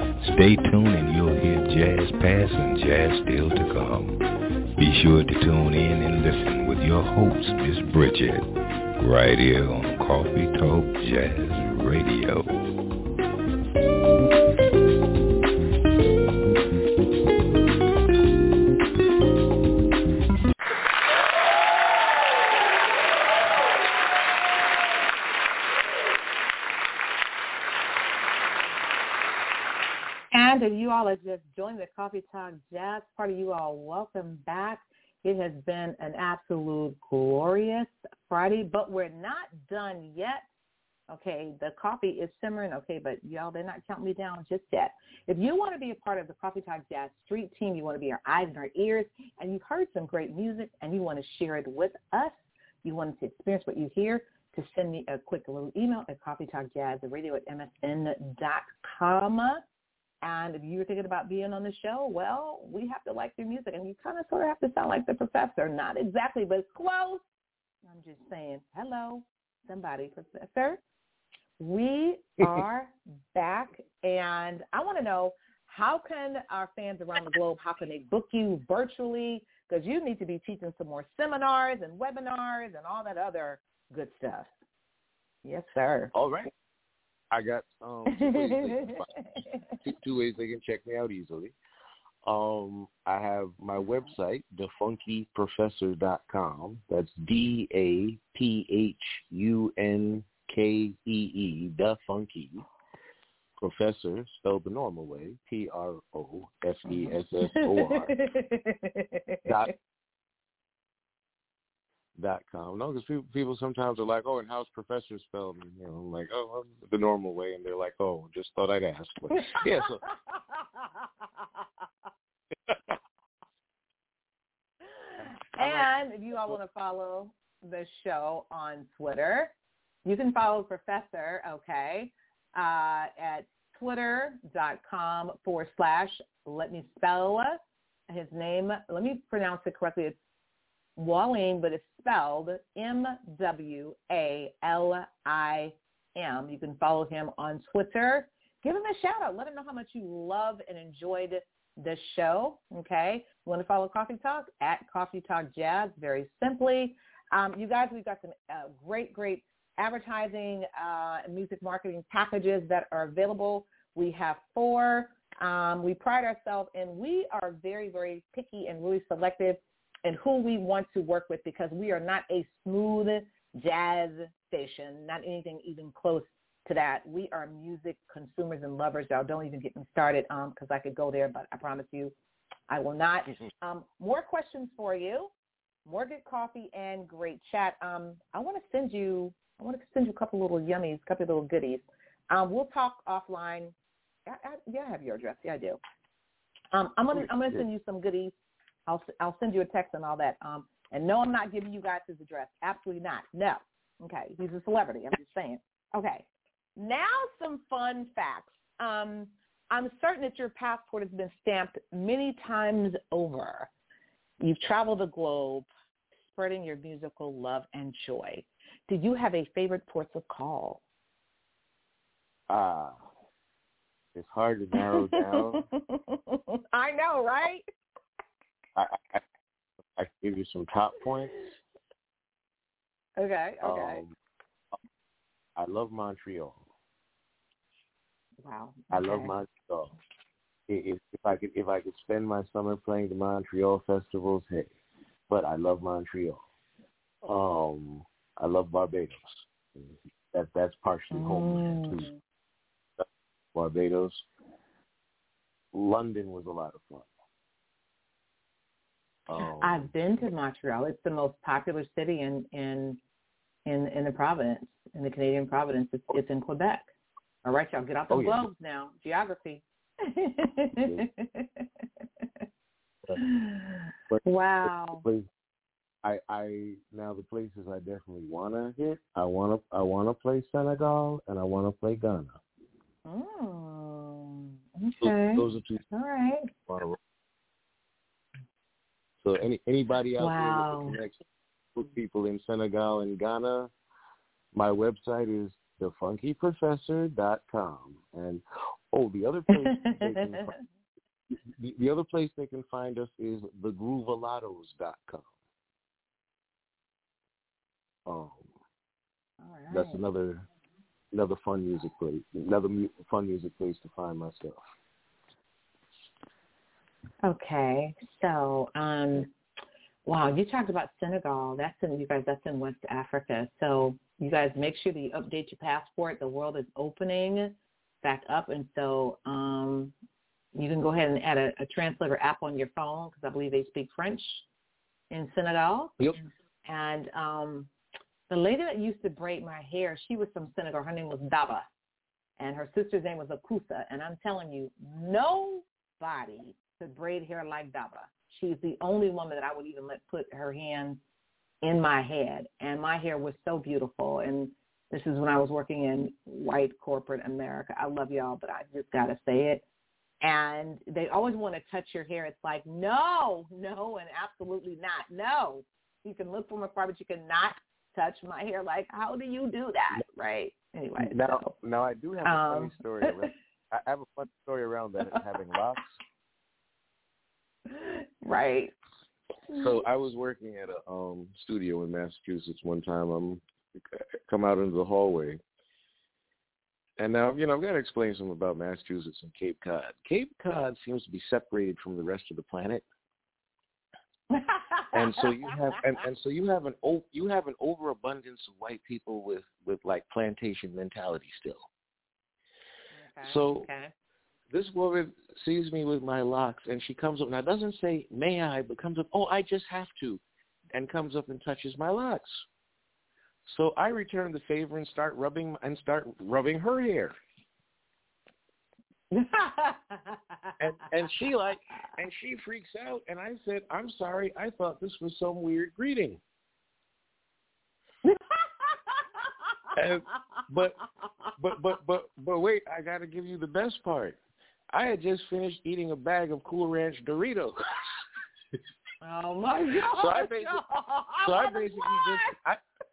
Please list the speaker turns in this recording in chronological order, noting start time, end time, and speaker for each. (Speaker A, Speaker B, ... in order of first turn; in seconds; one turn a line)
Speaker A: 0.2-4.2
Speaker A: 4.8-8.5
Speaker A: 9.0-12.5
Speaker B: 30.3-40.4
Speaker B: 41.1-59.6
Speaker B: 60.2-67.2
Speaker B: 67.8-70.8
Speaker B: 71.6-84.5
Speaker B: 85.4-86.1
Speaker C: 86.1-86.5
Speaker C: 87.3-89.1
Speaker B: 88.1-89.6
Speaker C: 89.8-91.5
Speaker C: 92.2-102.7
Speaker C: 103.6-108.1
Speaker B: 106.9-109.7
Speaker C: 109.4-109.7
Speaker C: 112.2-120.0
Speaker B: 120.3-120.8
Speaker B: 125.0-129.5
Speaker C: 125.6-125.9
Speaker B: 130.0-140.2
Speaker B: 141.0-182.1
Speaker B: 182.7-185.3
Speaker B: 185.8-193.7
Speaker B: 194.2-195.8
Speaker B: 196.7-198.3
Speaker C: 197.1-197.6
Speaker B: 198.9-206.2
Speaker B: 206.8-213.7
Speaker B: 214.4-215.7
Speaker B: 216.3-220.8
Speaker C: 222.5-223.0
Speaker C: 224.1-225.6
Speaker B: 224.7-227.7
Speaker C: 228.7-229.2
Speaker C: 229.9-231.5
Speaker B: 233.2-234.0
Speaker C: 233.6-234.2
Speaker C: 235.6-236.7
Speaker B: 238.4-239.3
Speaker C: 238.9-240.0
Speaker C: 240.7-244.7
Speaker C: 245.3-246.4
Speaker C: 247.2-252.1
Speaker B: 251.1-252.2
Speaker C: 253.0-254.2
Speaker C: 255.7-257.1
Speaker C: 259.3-259.9
Speaker B: 259.4-263.0
Speaker B: 263.6-266.9
Speaker B: 267.4-271.6
Speaker C: 268.1-268.4
Speaker C: 270.8-271.1
Speaker B: 273.1-275.1
Speaker C: 274.1-275.3
Speaker C: 276.0-282.4
Speaker B: 283.0-286.5
Speaker C: 285.0-285.8
Speaker C: 286.7-287.0
Speaker C: 289.2-293.7
Speaker B: 290.2-291.0
Speaker C: 294.5-300.5
Speaker B: 299.5-300.6
Speaker C: 301.3-305.3
Speaker C: 308.1-308.5
Speaker B: 309.4-310.0
Speaker C: 309.7-310.5
Speaker C: 311.1-314.6
Speaker B: 317.2-319.3
Speaker B: 320.1-329.9
Speaker B: 330.5-334.4
Speaker B: 335.1-336.0
Speaker B: 336.6-337.7
Speaker B: 338.3-341.7
Speaker B: 342.4-351.0
Speaker B: 351.6-359.6
Speaker B: 360.2-371.5
Speaker C: 371.0-375.9
Speaker B: 372.2-373.3
Speaker B: 375.1-375.5
Speaker B: 377.7-378.7
Speaker C: 379.5-383.4
Speaker C: 383.9-385.4
Speaker C: 387.0-392.8
Speaker B: 394.3-395.8
Speaker C: 394.9-401.7
Speaker B: 402.9-403.9
Speaker C: 403.2-403.7
Speaker C: 404.5-410.2
Speaker C: 410.7-412.4
Speaker C: 413.4-417.1
Speaker B: 419.1-420.5
Speaker C: 420.6-426.2
Speaker C: 429.8-430.8
Speaker C: 431.4-434.2
Speaker C: 434.7-438.0
Speaker B: 439.0-442.3
Speaker C: 439.9-440.6
Speaker C: 441.2-442.6